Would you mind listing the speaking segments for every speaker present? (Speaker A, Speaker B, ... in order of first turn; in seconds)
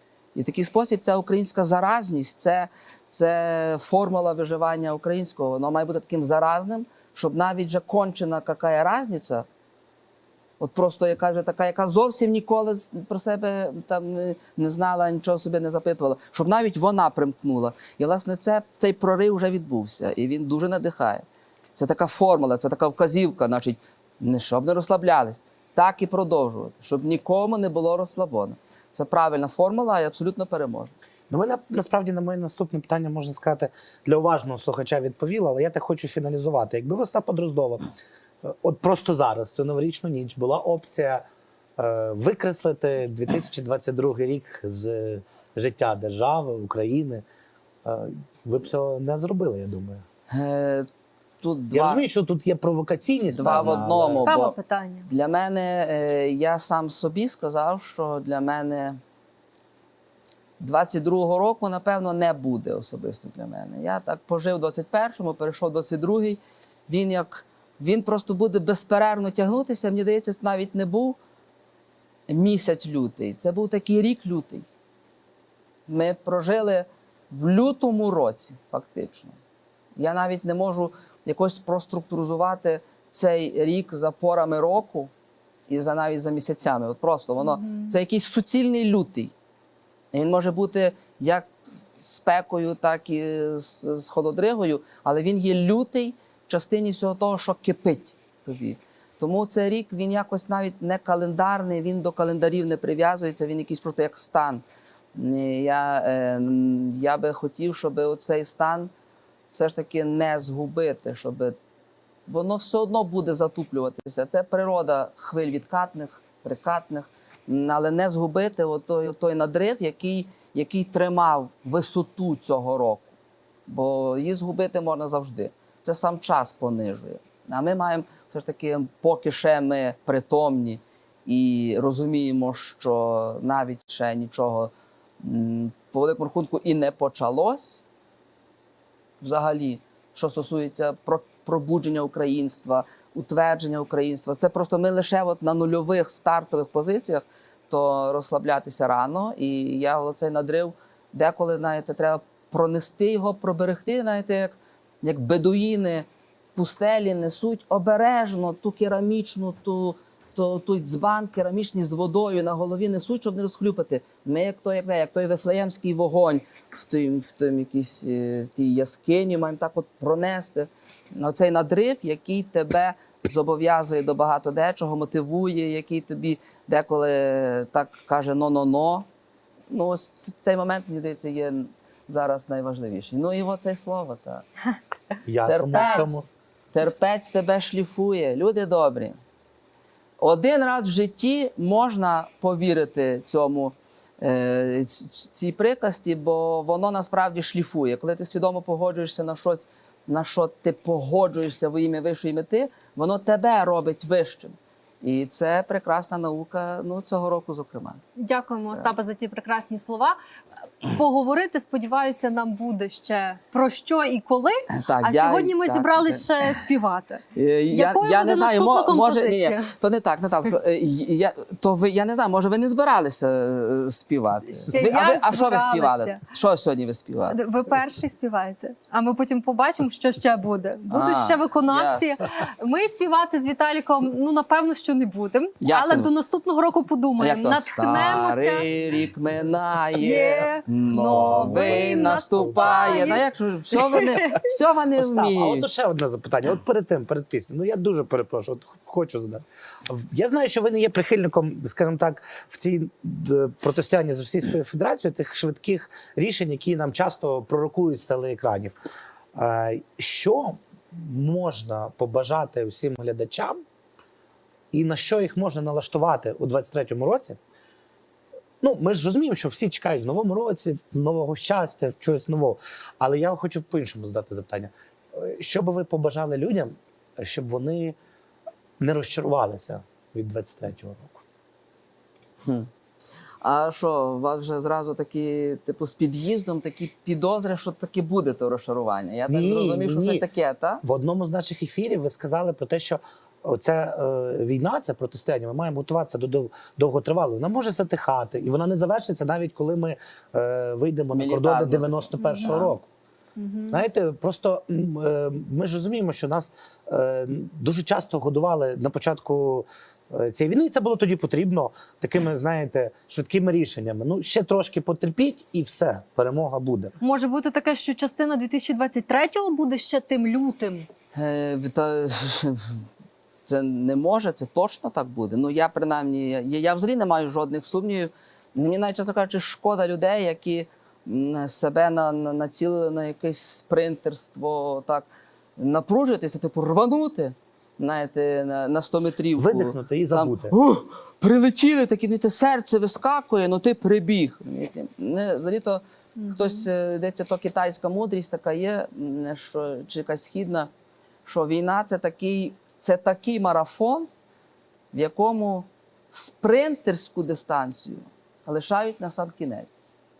Speaker A: 0.3-9.4, 10.6-21.2, 21.7-30.9, 50.3-50.9, 51.4-52.0, 53.3-54.5, 55.0-59.0, 60.6-71.2, 72.3-74.7, 75.9-79.4, 80.0-85.1, 85.7-89.3, 90.1-104.6, 105.1-108.9, 109.5-111.6, 112.3-123.1, 123.7-137.8, 139.2-179.1, 179.7-184.4, 185.4-186.2, 186.7-189.2, 190.2-208.0, 214.7-216.6, 217.3-227.4, 230.9-232.1, 235.6-236.1, 237.2-245.7, 282.4-282.7, 283.4-290.8, 301.1-302.7, 321.1-322.8, 323.4-350.7, 351.2-354.1, 354.9-359.7
Speaker B: 31.3-37.9, 38.4-41.2, 41.8-47.2, 47.8-50.0, 51.7-54.3, 185.2-186.2, 241.1-243.2, 244.9-258.7, 259.3-263.6, 264.7-267.4, 268.6-278.0, 278.8-281.2, 289.3-290.2, 290.8-302.9, 303.7-316.9, 339.4-340.5
Speaker C: 54.2-55.1, 208.2-210.2, 210.8-219.7, 224.7-226.2, 227.3-238.6, 240.0-243.2, 243.8-244.4, 303.4-303.8, 317.0-320.9